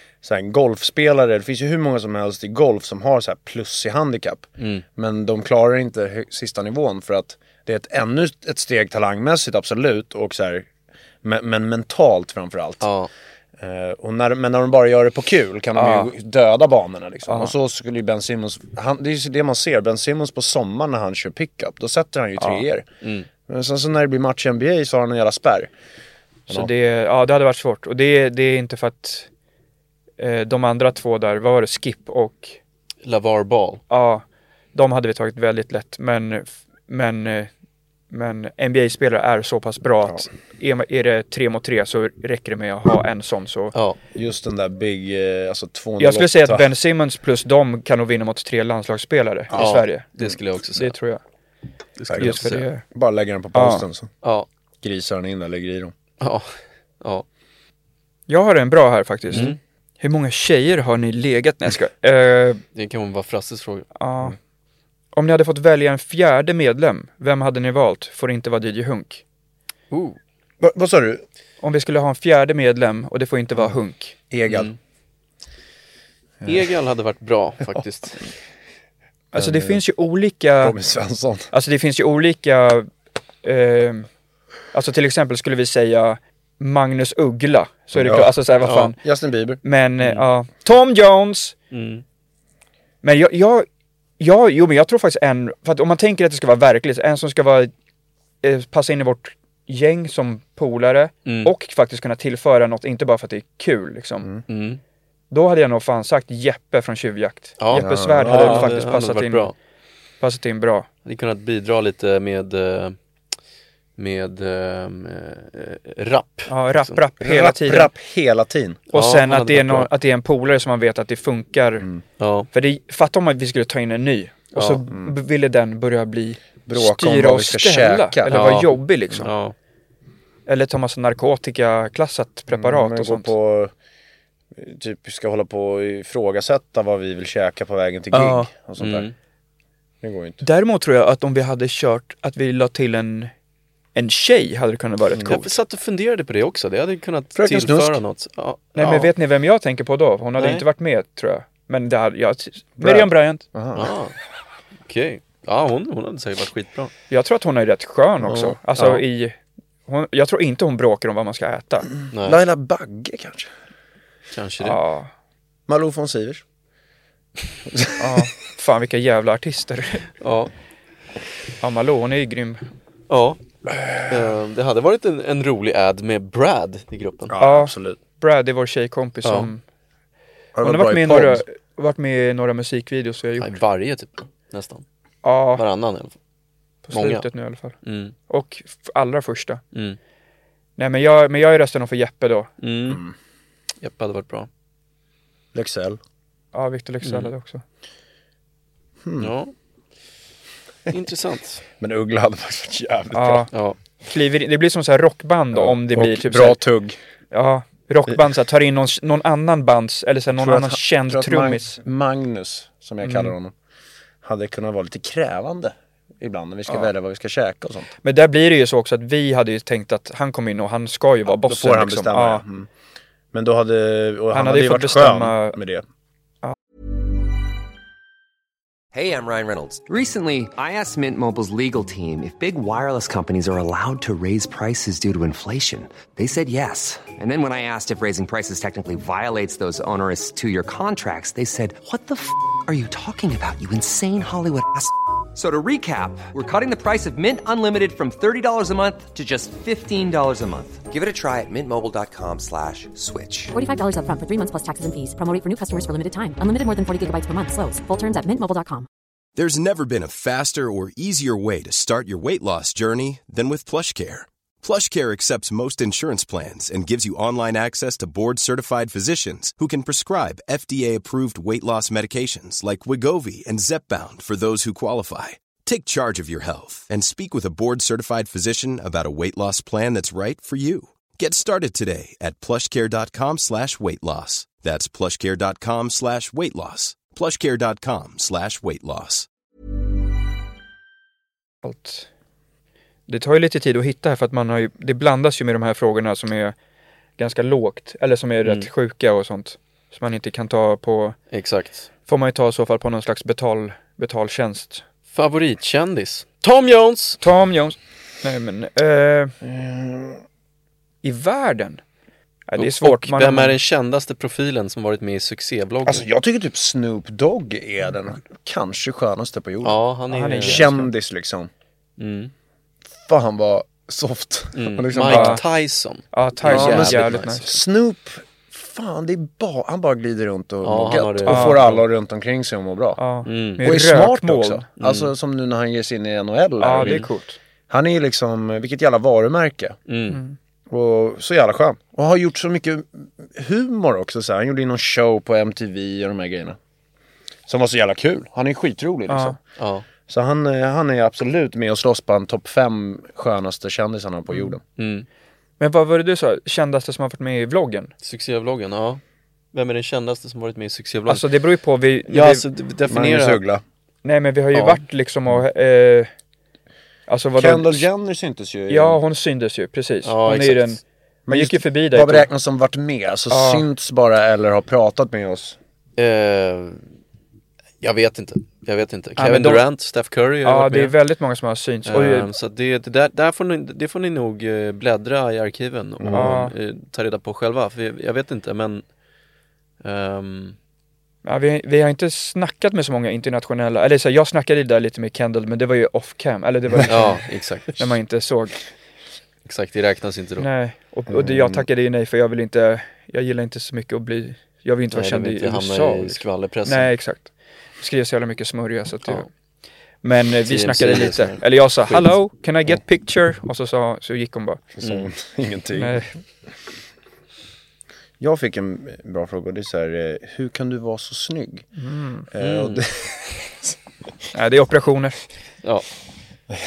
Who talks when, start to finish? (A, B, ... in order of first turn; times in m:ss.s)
0:00.2-0:10.7 A
0:04.6-0:04.8 B
0:11.2-0:12.9 A
0:12.8-0:13.1 B
0:13.6-0:22.8 A
0:15.8-0:16.1 C
0:17.3-0:17.5 C
0:22.4-0:22.6 C
0:23.0-0:23.3 B
0:23.4-0:25.7 A
0:26.5-0:29.3 C
0:30.2-0:32.6 C
0:33.0-0:33.8 B
0:33.9-0:37.5 C
0:38.1-0:43.7 C
0:44.1-0:46.7 A
0:46.0-0:50.1 C
0:49.5-0:50.4 A
0:49.5-0:50.9 B
0:50.7-0:51.2 C
0:52.0-0:52.6 B
0:52.1-0:54.1 A
0:52.2-0:52.8 C
0:53.5-0:53.8 C
0:54.8-0:55.9 A
0:56.2-0:57.2 B
0:58.3-1:02.6 C
0:59.3-0:59.6 B
1:02.7-1:03.9 B
1:04.0-1:04.4 C
1:05.1-1:09.2 C
1:09.9-1:10.2 B
1:10.6-1:11.2 A
1:11.6-1:14.1 C
1:14.3-1:14.7 A
1:14.5-1:14.8 B
1:16.4-1:18.2 B
1:19.3-1:19.8 A
1:19.3-1:20.7 C
1:20.6-1:21.5 A
1:21.5-1:22.9 C
1:23.4-1:24.1 C
1:24.7-1:29.0 C
1:27.9-1:29.6 A
1:29.6-1:31.5 C
1:31.7-1:32.0 B
1:33.0-1:33.6 C
1:34.2-1:37.7 C
1:38.4-1:44.3 C
1:41.2-1:41.5 B
1:44.5-1:44.8 B
1:45.3-1:49.5 C
1:47.6-1:49.5 B
1:47.8-1:48.7 A
1:50.2-1:50.9 C
1:51.0-1:53.0 B
1:54.0-1:57.0 B
1:56.5-1:57.9 C
1:57.2-1:58.8 A
1:58.9-2:01.8 C
1:58.9-1:59.9 B
2:02.2-2:02.5 B
2:02.5-2:09.3 C
2:04.9-2:05.1 A
2:06.6-2:08.4 A
2:08.3-2:09.5 B
2:10.4-2:13.3 C
2:12.5-2:13.7 A
2:14.6-2:19.1 A
2:18.1-2:18.5 C
2:18.8-2:19.1 B
2:20.0-2:20.4 A
2:20.4-2:23.3 C
2:23.9-2:25.4 C
2:25.1-2:25.4 A
2:25.2-2:29.1 B
2:27.4-2:28.0 A
2:28.7-2:33.4 C
2:30.4-2:30.6 B
2:32.8-2:33.9 A
2:33.7-2:34.2 B
2:34.9-2:36.9 B
2:37.1-2:41.9 C
2:38.3-2:38.5 A
2:38.8-2:39.0 B
2:42.1-2:42.4 B
2:42.2-2:43.5 A
2:44.3-2:44.8 B
2:44.6-2:45.1 C
2:45.7-2:46.4 A
2:47.7-2:48.2 A
2:48.0-2:50.1 C
2:50.2-2:50.5 B
2:51.6-2:52.7 C
2:53.1-2:53.4 B
2:53.7-2:54.1 A
2:54.0-2:57.3 B
2:57.3-2:58.0 A
2:57.4-2:59.6 C
2:59.2-2:59.5 B
3:00.5-3:01.4 A
3:00.6-3:03.6 C
3:03.4-3:04.8 B
3:05.2-3:05.6 C
3:05.6-3:06.1 B
3:06.8-3:07.8 C
3:06.9-3:07.2 B
3:07.8-3:08.1 B
3:08.3-3:09.6 C
3:09.7-3:10.0 B
3:10.8-3:12.5 C
3:12.6-3:13.0 B
3:12.9-3:13.1 A
3:13.8-3:14.5 B
3:15.5-3:16.0 A
3:16.5-3:17.6 C
3:17.0-3:17.3 B
3:19.0-3:19.3 A
3:19.2-3:19.5 B
3:20.9-3:21.6 B
3:21.8-3:23.5 A
3:23.1-3:23.5 C
3:23.5-3:23.8 B
3:24.0-3:26.6 C
3:25.5-3:27.0 A
3:27.3-3:31.8 C
3:30.3-3:33.5 A
3:33.0-3:33.3 C
3:34.2-3:37.9 A
3:38.0-3:42.4 C
3:41.3-3:42.7 A
3:43.3-3:45.8 A
3:44.3-3:45.6 C
3:48.9-4:13.5 D
4:13.5-4:18.9 E
4:19.4-4:49.3 F
4:51.6-4:52.1 C
4:53.1-4:56.5 C
4:57.2-5:01.2 C
5:01.3-5:01.9 B
5:02.1-5:04.8 C
5:05.1-5:07.2 B
5:07.2-5:09.4 C
5:09.4-5:10.2 A
5:11.0-5:11.8 C
5:12.5-5:13.6 C
5:12.6-5:16.0 B
5:15.8-5:19.8 A
5:19.6-5:20.7 B
5:20.1-5:20.9 C
5:20.4-5:21.5 A
5:22.0-5:22.3 B
5:23.0-5:25.4 A
5:24.6-5:27.6 B
5:25.0-5:25.4 C
5:26.1-5:27.5 C
5:26.4-5:33.0 A
5:30.6-5:31.8 B
5:31.2-5:31.6 C
5:33.0-5:34.6 C
5:33.2-5:33.6 B
5:33.6-5:37.1 A
5:34.8-5:35.1 B
5:36.6-5:37.4 C
5:36.8-5:37.0 B
5:37.7-5:39.8 A
5:39.9-5:40.2 B
5:40.1-5:40.4 C
5:40.7-5:46.6 A
5:47.5-5:49.4 A
5:49.1-5:49.4 C
5:49.6-5:49.8 B
5:50.1-5:54.6 A
5:54.8-5:55.0 B
5:55.6-5:57.9 C
5:58.0-5:59.0 B
5:59.5-6:01.2 B
6:01.1-6:02.4 C
6:02.1-6:03.4 B
6:02.9-6:03.6 A
6:04.0-6:06.1 C
6:04.5-6:04.8 B
6:07.1-6:07.9 C
6:07.4-6:09.0 A
6:08.7-6:12.3 C
6:10.0-6:10.8 B
6:11.3-6:15.6 A
6:13.3-6:13.6 C
6:16.0-6:16.8 B
6:17.8-6:21.0 B
6:19.2-6:19.6 C
6:20.4-6:22.3 C
6:21.9-6:28.8 B
6:26.0-6:26.4 A
6:26.1-6:26.5 C
6:29.8-6:30.6 B
6:31.2-6:37.2 C
6:36.9-6:37.8 B
6:37.8-6:38.6 C
6:39.4-6:40.5 B
6:40.4-6:49.2 C
6:41.1-6:41.6 A
6:44.9-6:46.9 B
6:50.0-6:54.6 C
6:50.5-6:51.9 B
6:54.7-6:56.2 A
6:54.8-6:55.1 B
6:55.7-6:56.1 C
6:58.2-7:01.7 A
7:01.8-7:02.2 C
7:02.3-7:03.8 A
7:02.4-7:02.8 B
7:04.3-7:05.2 C